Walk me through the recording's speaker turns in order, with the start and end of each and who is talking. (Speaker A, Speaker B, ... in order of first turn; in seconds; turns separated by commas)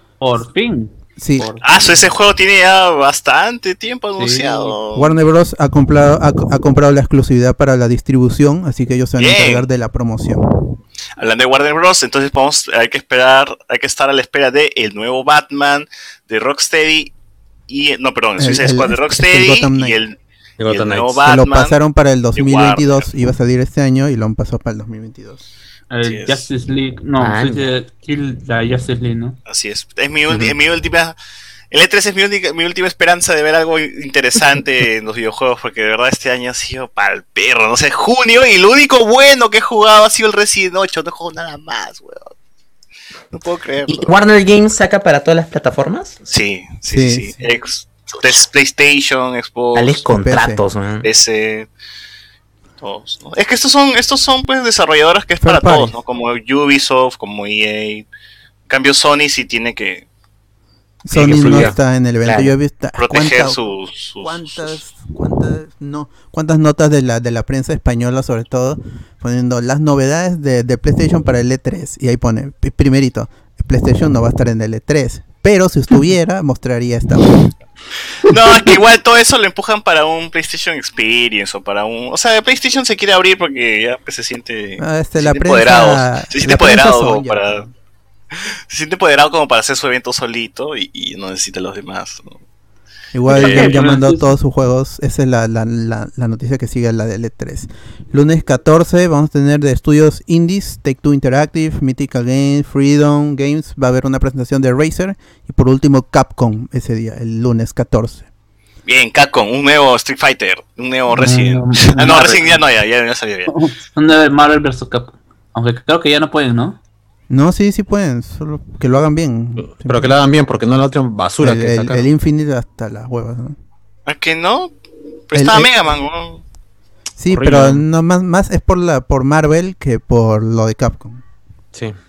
Speaker A: 0.2-2.1, Speaker B: 1.2-1.5, Speaker C: 1.6-5.1, Speaker A: 4.2-4.7, Speaker B: 4.9-10.5, Speaker C: 9.2-9.7, Speaker C: 11.2-17.1, Speaker C: 17.7-20.2, Speaker B: 18.4-20.0, Speaker D: 20.6-21.2, Speaker C: 20.7-21.8, Speaker B: 21.2-25.4, Speaker C: 22.3-23.1, Speaker A: 25.9-29.4, Speaker C: 26.0-26.4, Speaker E: 27.2-27.6, Speaker C: 29.5-31.1, Speaker C: 31.7-42.3, Speaker C: 43.3-44.1, Speaker E: 43.9-46.2, Speaker C: 46.3-50.0, Speaker B: 46.9-47.3, Speaker E: 49.7-51.1, Speaker B: 50.1-50.6, Speaker C: 51.0-51.7, Speaker C: 52.8-58.0, Speaker B: 55.4-56.0, Speaker C: 58.7-60.0, Speaker B: 61.0-63.6, Speaker C: 61.1-61.7, Speaker D: 61.1-61.8, Speaker E: 62.2-62.5, Speaker C: 63.0-64.8, Speaker B: 64.2-77.5, Speaker C: 78.2-87.6, Speaker B: 84.8-87.6, Speaker C: 88.7-92.4, Speaker B: 93.1-108.3, Speaker A: 93.3-94.3, Speaker C: 93.3-94.0, Speaker C: 108.8-113.5, Speaker A: 111.1-112.6, Speaker A: 113.5-116.8, Speaker B: 117.3-120.2, Speaker D: 119.6-122.0, Speaker B: 121.4-123.5, Speaker C: 124.0-124.7, Speaker C: 125.3-126.4, Speaker B: 125.3-125.7, Speaker B: 127.2-131.2, Speaker D: 127.3-127.8